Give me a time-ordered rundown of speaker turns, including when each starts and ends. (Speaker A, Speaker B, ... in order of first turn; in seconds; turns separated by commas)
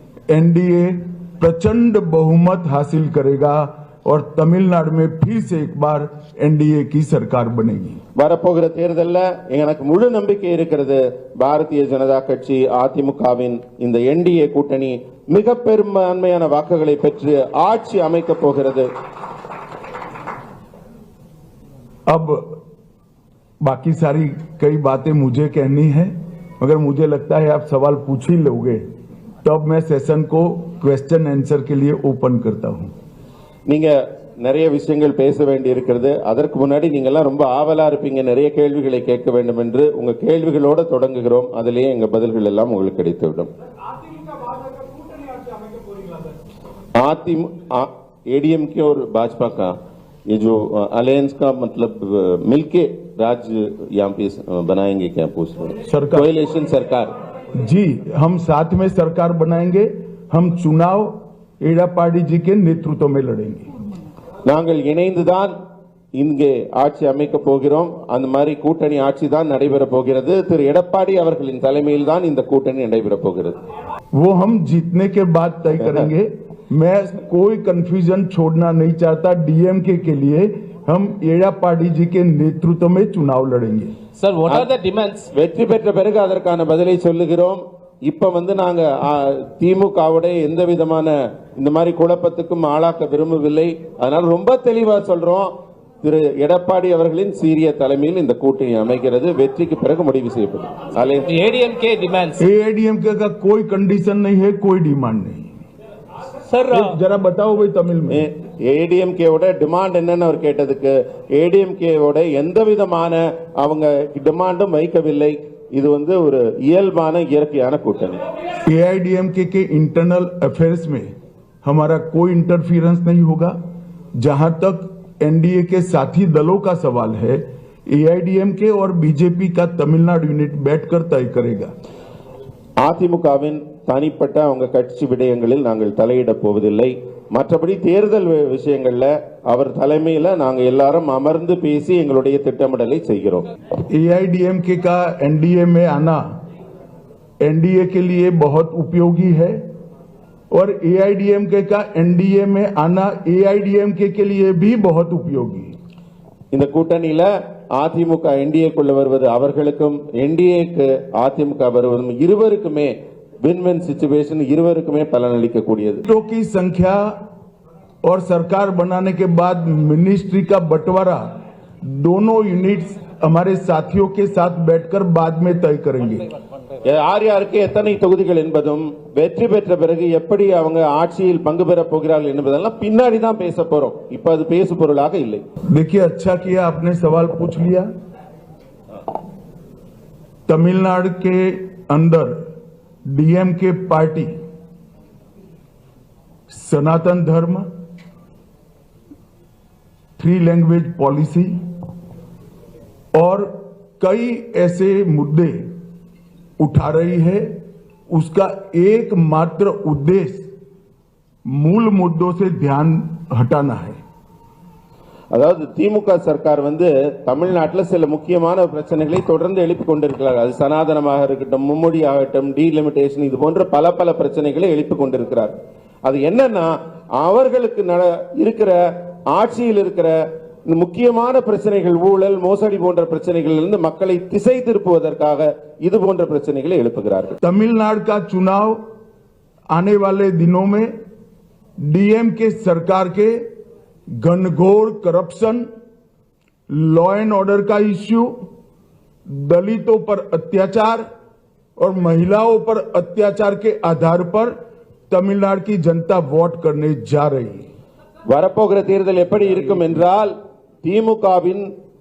Speaker A: 0.3-8.0, Speaker B: 8.2-18.9, Speaker A: 22.1-22.5, Speaker A: 23.6-28.8, Speaker A: 29.4-32.9, Speaker B: 33.7-43.5, Speaker B: 47.0-49.7, Speaker B: 50.3-57.1, Speaker A: 55.9-56.3, Speaker A: 57.5-63.7, Speaker B: 64.5-65.5, Speaker B: 66.2-73.5, Speaker A: 74.1-84.0, Speaker C: 84.2-85.3, Speaker B: 85.3-95.5, Speaker B: 96.0-101.3, Speaker C: 101.3-102.4, Speaker A: 102.4-105.5, Speaker A: 106.7-108.2, Speaker B: 108.1-118.2, Speaker A: 118.6-121.1, Speaker A: 121.6-123.6, Speaker A: 124.2-131.7, Speaker B: 132.8-143.4, Speaker A: 143.9-146.2, Speaker A: 147.4-149.6, Speaker A: 150.5-155.7, Speaker B: 156.5-166.0, Speaker A: 166.1-167.1, Speaker A: 168.0-171.3, Speaker A: 171.8-176.3, Speaker B: 176.8-185.4, Speaker A: 185.7-187.9, Speaker A: 190.5-192.4, Speaker A: 193.1-194.3, Speaker A: 196.5-197.7, Speaker A: 200.2-201.5, Speaker A: 203.1-205.7, Speaker A: 206.6-207.6, Speaker A: 208.1-210.5, Speaker A: 211.5-214.0, Speaker B: 215.3-230.1, Speaker B: 230.7-237.4, Speaker A: 237.4-238.8, Speaker A: 239.7-240.9, Speaker A: 241.8-243.4, Speaker A: 244.2-245.6, Speaker A: 246.7-248.3, Speaker A: 249.3-251.0, Speaker A: 251.8-254.5, Speaker A: 255.1-257.6, Speaker B: 258.3-261.7